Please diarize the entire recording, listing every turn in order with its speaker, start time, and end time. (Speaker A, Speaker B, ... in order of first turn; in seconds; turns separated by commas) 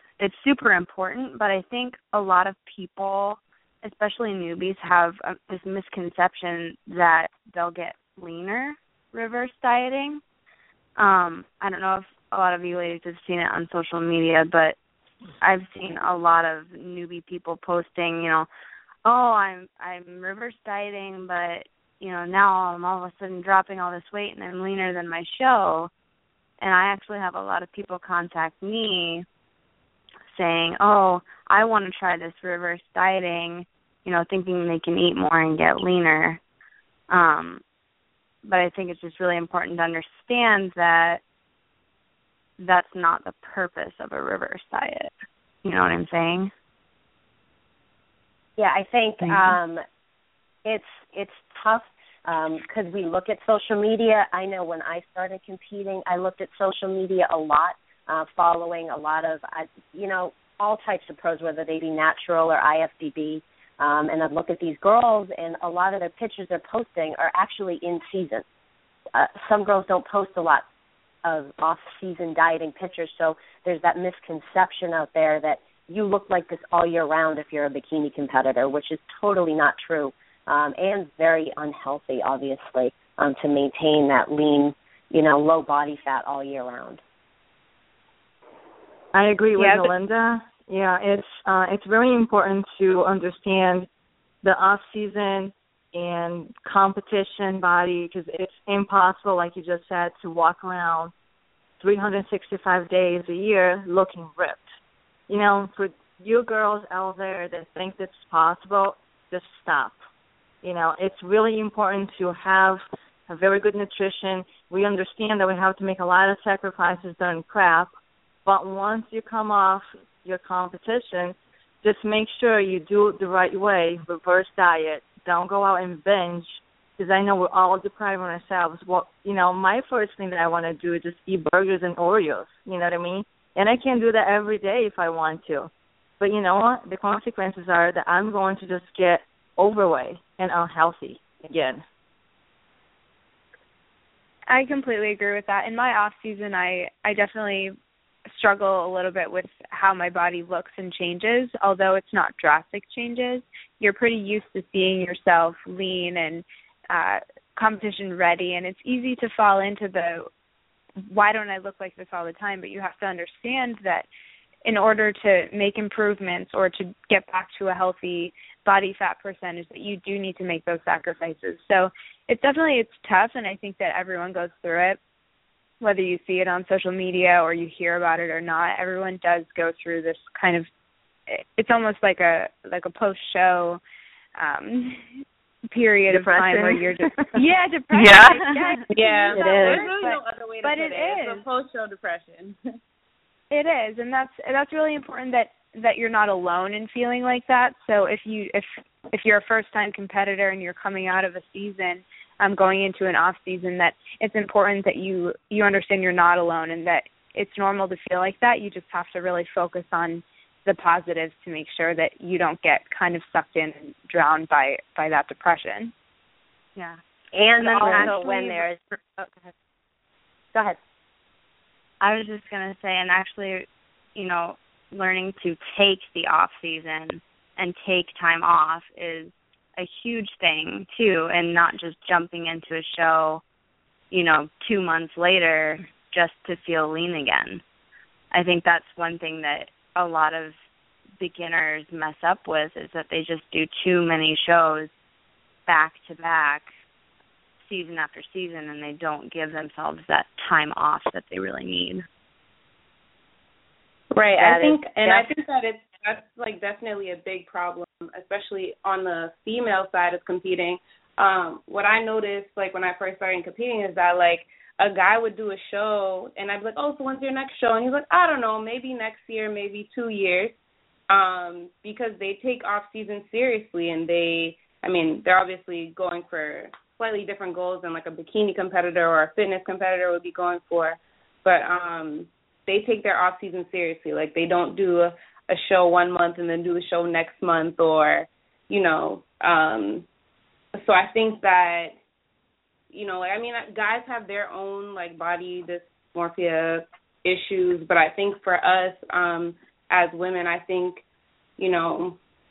Speaker A: 0.2-10.2, Speaker A: 11.0-14.8, Speaker A: 15.4-18.5, Speaker A: 19.0-25.9, Speaker A: 26.6-29.3, Speaker A: 30.3-36.4, Speaker A: 37.1-37.6, Speaker A: 38.5-41.2, Speaker A: 42.6-45.1, Speaker A: 45.6-46.5, Speaker B: 48.6-49.8, Speaker A: 49.2-49.6, Speaker B: 50.6-68.5, Speaker B: 69.1-70.7, Speaker B: 71.2-87.0, Speaker C: 89.1-93.9, Speaker C: 94.4-101.1, Speaker C: 101.8-104.7, Speaker C: 105.3-110.0, Speaker C: 110.6-117.9, Speaker C: 118.5-141.8, Speaker D: 144.5-147.7, Speaker D: 148.3-160.3, Speaker D: 161.1-164.1, Speaker D: 164.7-175.0, Speaker D: 175.8-180.7, Speaker D: 181.3-183.8, Speaker D: 184.4-185.1, Speaker D: 185.7-191.4, Speaker C: 186.1-187.0, Speaker C: 187.9-188.4, Speaker E: 188.9-192.6, Speaker B: 189.3-189.8, Speaker D: 193.5-215.9, Speaker B: 217.3-219.3, Speaker A: 217.6-218.6, Speaker D: 217.8-218.3, Speaker B: 220.5-220.8, Speaker A: 222.0-233.4, Speaker A: 234.1-237.6, Speaker A: 238.3-240.6, Speaker A: 241.2-244.9, Speaker A: 245.7-246.7, Speaker A: 247.7-252.1, Speaker E: 254.1-270.6, Speaker B: 254.4-255.3, Speaker E: 271.1-290.1, Speaker E: 290.8-292.0, Speaker E: 292.9-301.0, Speaker E: 301.6-302.2